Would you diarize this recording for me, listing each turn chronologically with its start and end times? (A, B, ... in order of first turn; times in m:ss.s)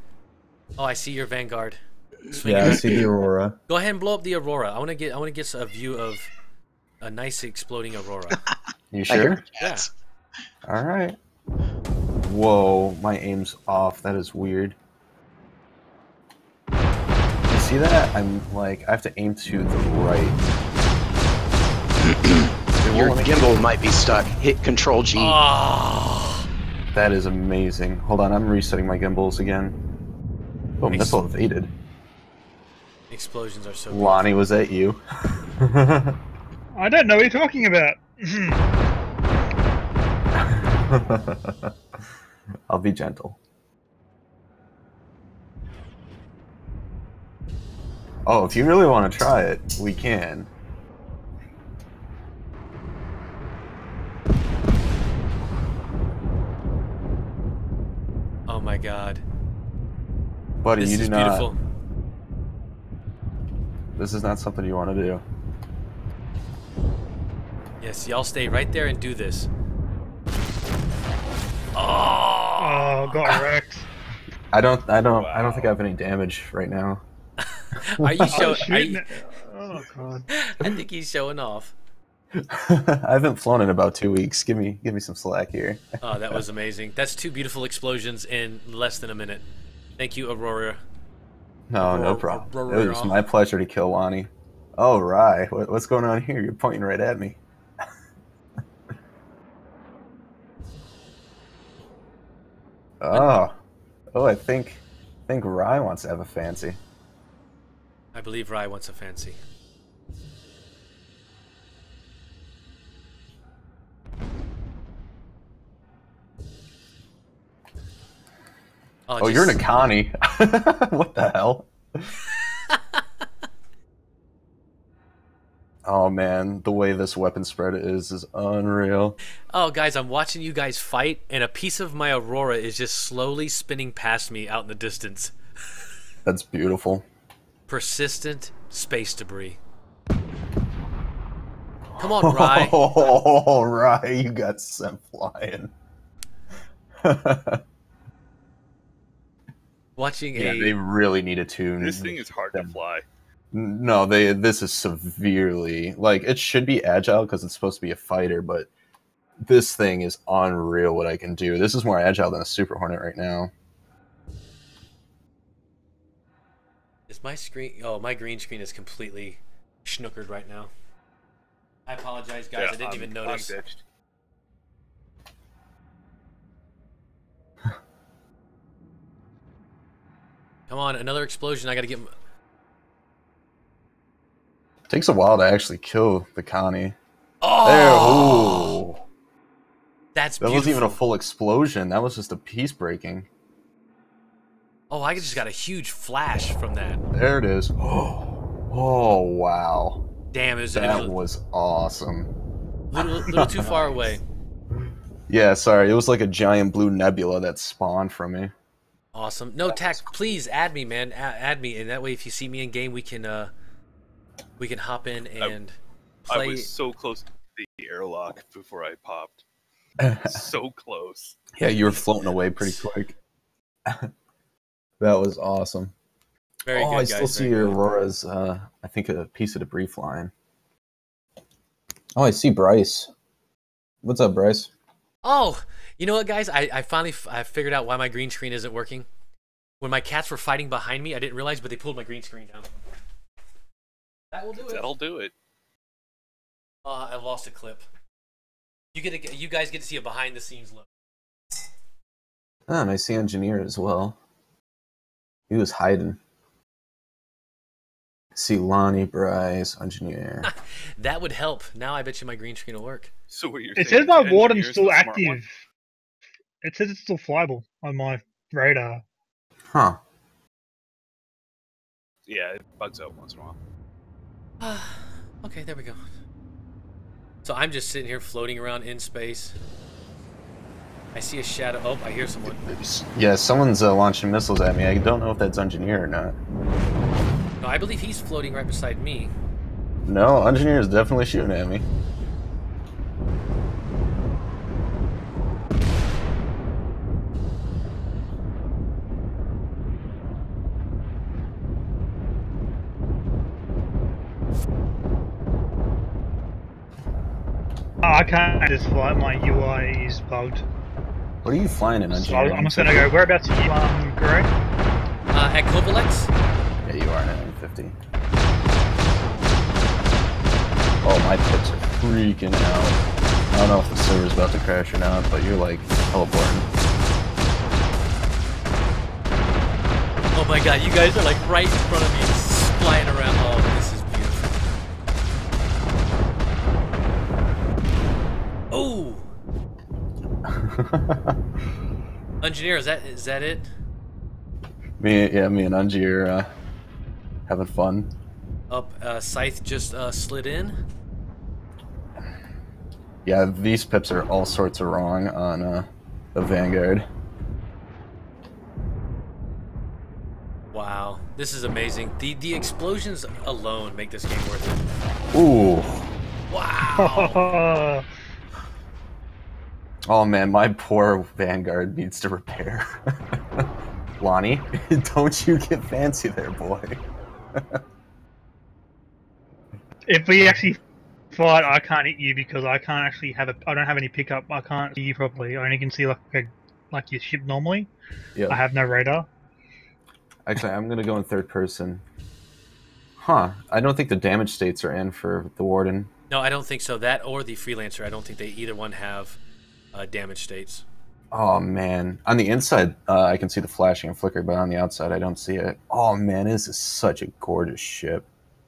0:00.8-0:03.0 A
0:02.4-0:03.6 B
0:03.7-0:06.3 A
0:07.0-0:08.4 A
0:08.9-0:09.4 B
0:09.1-0:09.9 C
0:09.6-0:09.9 A
0:10.6-0:11.2 B
0:12.2-0:14.8 B
0:17.5-0:20.4 B
0:22.0-0:25.4 C
0:22.8-0:23.5 B
0:25.2-0:26.4 A
0:26.9-0:29.8 B
0:30.8-0:31.7 B
0:30.8-0:31.2 A
0:33.1-0:34.3 A
0:33.9-0:36.2 B
0:36.8-0:38.6 D
0:40.3-0:41.7 B
0:42.7-0:43.4 B
0:48.2-0:50.5 B
0:58.5-0:59.2 A
1:00.6-1:01.5 B
1:00.8-1:01.6 A
1:04.0-1:05.2 B
1:07.8-1:09.5 A
1:11.7-1:13.4 A
1:12.6-1:13.9 D
1:14.5-1:17.0 B
1:15.1-1:15.7 E
1:17.4-1:19.0 A
1:18.0-1:18.7 B
1:18.3-1:20.3 D
1:20.3-1:21.7 A
1:22.4-1:26.4 B
1:26.0-1:29.4 A
1:30.0-1:30.8 A
1:31.7-1:37.4 B
1:31.8-1:33.2 A
1:43.0-1:43.6 B
1:43.1-1:43.5 A
1:44.1-1:46.8 B
1:48.1-1:49.4 A
1:59.1-1:59.6 A
1:59.2-2:02.1 B
2:05.8-2:09.2 B
2:09.5-2:15.3 A
2:16.2-2:17.0 B
2:17.7-2:19.6 A
2:22.0-2:25.7 B
2:22.0-2:22.8 A
2:27.0-2:27.6 B
2:30.0-2:30.8 A
2:30.3-2:32.7 B
2:31.8-2:33.0 E
2:33.5-2:38.7 B
2:39.4-2:43.5 B
2:47.1-2:50.7 A
2:51.9-2:53.6 A
2:52.6-2:53.8 E
3:00.7-3:02.1 A
3:04.9-3:07.0 B
3:07.4-3:08.8 A
3:07.6-3:09.0 B
3:10.1-3:11.0 A
3:10.4-3:13.3 B
3:14.9-3:17.0 A
3:17.1-3:20.0 B
3:20.3-3:21.2 A
3:20.7-3:22.3 B
3:22.9-3:24.2 A
3:23.0-3:23.8 B
3:25.3-3:28.5 B
3:29.1-3:33.5 A
3:29.7-3:30.0 E
3:34.6-3:35.7 A
3:36.3-3:36.7 A
3:36.3-3:39.4 E
3:40.0-3:40.4 B
3:40.2-3:41.4 E
3:41.6-3:43.2 B
3:42.6-3:42.9 A
3:43.8-3:44.1 B
3:45.0-3:45.9 B
3:46.6-3:47.9 A
3:46.7-3:50.3 B
3:52.2-3:53.1 B
3:54.0-3:54.7 B
3:55.2-3:59.1 A
3:59.8-4:02.7 A
4:04.3-4:04.9 A
4:04.5-4:05.3 E
4:06.8-4:07.8 A
4:08.9-4:10.8 A
4:12.7-4:14.2 B
4:15.5-4:16.2 B
4:18.3-4:20.5 B
4:20.4-4:23.1 A
4:23.3-4:25.4 E
4:23.8-4:25.5 D
4:26.6-4:29.0 D
4:29.7-4:30.0 B
4:32.2-4:33.6 E
4:34.6-4:36.0 A
4:37.4-4:39.6 A
4:41.1-4:42.6 A
4:42.5-4:46.4 B
4:47.6-4:49.3 A
4:50.0-4:51.8 B
5:08.0-5:10.6 D
5:11.4-5:13.1 B
5:12.1-5:14.5 D
5:15.3-5:16.3 A
5:16.8-5:18.0 B
5:21.0-5:23.0 B
5:23.5-5:26.6 B
5:30.3-5:34.6 A
5:38.7-5:39.2 A
5:40.5-5:41.4 B
5:42.4-5:43.7 A
5:45.0-5:46.5 B
5:47.5-5:48.1 B
5:48.7-5:50.8 A
5:53.2-5:57.1 B
6:00.7-6:04.9 A
6:05.3-6:06.1 B
6:06.5-6:07.5 A
6:06.9-6:08.0 D
6:10.1-6:13.6 B
6:14.2-6:17.0 B
6:17.6-6:17.8 B
6:20.1-6:20.8 D
6:21.3-6:27.9 D
6:28.5-6:29.3 D
6:30.4-6:32.0 B
6:33.2-6:36.1 B
6:36.3-6:39.4 A
6:39.9-6:40.8 A
6:41.3-6:48.3 B